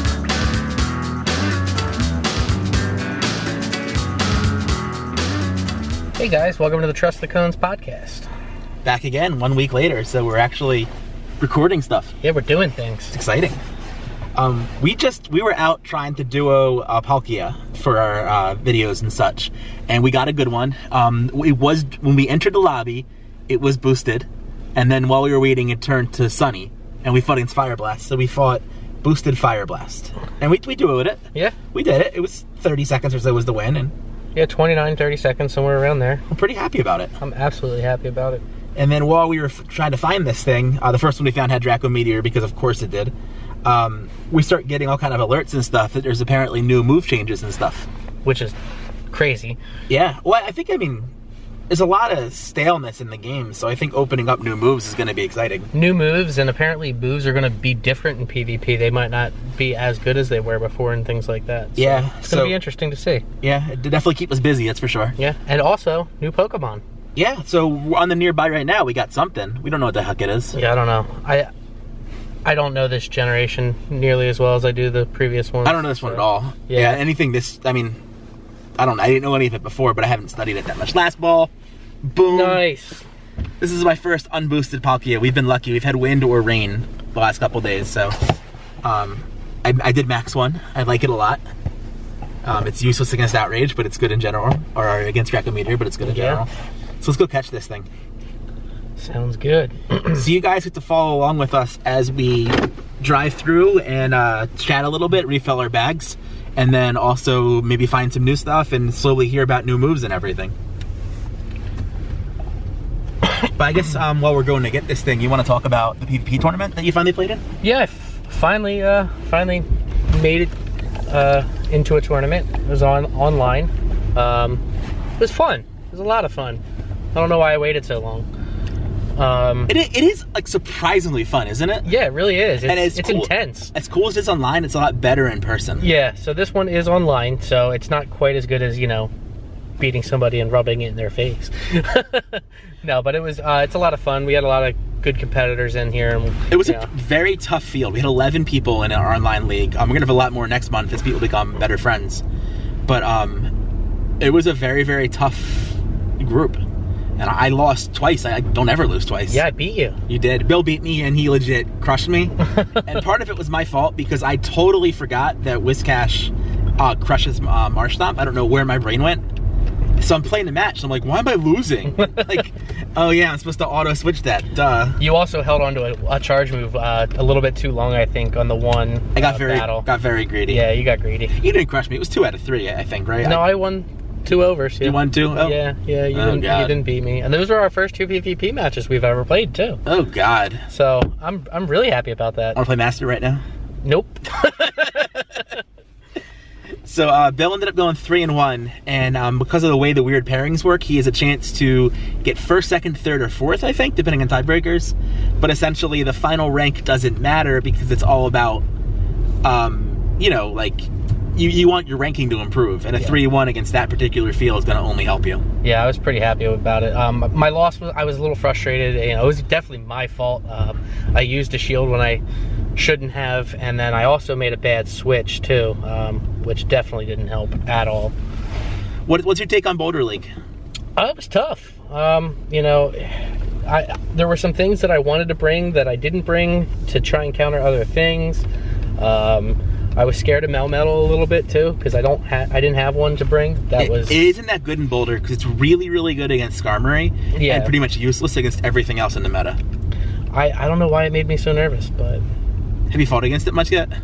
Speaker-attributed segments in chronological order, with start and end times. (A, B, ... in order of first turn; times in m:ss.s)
0:06.2-0:08.3 A
0:08.8-0:12.1 B
0:12.2-0:13.1 A
0:13.1-0:13.6 B
0:14.4-0:33.9 B
0:34.3-0:36.2 A
0:36.3-0:37.1 B
0:37.2-0:38.4 A
0:38.8-0:43.1 B
0:43.6-0:47.9 B
0:48.2-0:48.6 A
0:49.1-0:49.6 A
0:49.9-0:51.1 B
0:51.7-0:55.7 B
0:55.7-1:03.2 A
1:01.8-1:02.6 B
1:03.4-1:05.1 B
1:05.2-1:06.8 A
1:07.1-1:10.6 B
1:10.5-1:11.5 A
1:12.4-1:17.0 A
1:15.6-1:18.0 B
1:18.8-1:21.5 B
1:22.0-1:22.6 B
1:22.2-1:23.0 A
1:23.6-1:28.2 B
1:28.8-1:31.4 B
1:32.4-1:36.5 B
1:36.0-1:36.4 A
1:37.0-1:37.9 B
1:39.0-1:40.3 A
1:40.1-1:50.5 B
1:53.6-1:57.4 B
1:57.6-2:00.5 A
2:01.1-2:04.6 A
2:05.2-2:06.6 A
2:07.1-2:08.3 A
2:09.2-2:09.7 A
2:09.7-2:11.9 B
2:11.8-2:13.7 A
2:12.6-2:15.9 B
2:15.8-2:19.1 A
2:19.8-2:26.9 A
2:26.5-2:32.2 B
2:32.9-2:33.5 B
2:34.2-2:36.6 B
2:37.2-2:39.4 B
2:39.3-2:40.0 A
2:40.1-2:49.2 B
2:42.6-2:42.9 A
2:50.0-2:55.0 B
2:52.0-2:52.3 A
2:55.0-2:59.9 A
2:59.1-3:00.6 B
3:00.5-3:01.4 A
3:01.3-3:03.5 B
3:03.2-3:09.8 A
3:04.8-3:05.6 B
3:06.1-3:06.8 B
3:09.8-3:10.6 B
3:10.7-3:12.6 A
3:12.5-3:13.4 B
3:13.8-3:15.4 A
3:14.6-3:15.1 B
3:16.8-3:28.6 B
3:29.4-3:35.4 B
3:35.6-3:42.2 A
3:42.8-3:48.1 A
3:49.0-3:50.3 B
3:51.0-3:58.4 A
3:59.0-4:04.3 A
4:03.8-4:09.6 B
4:07.3-4:07.7 A
4:10.3-4:12.2 A
4:12.9-4:13.9 B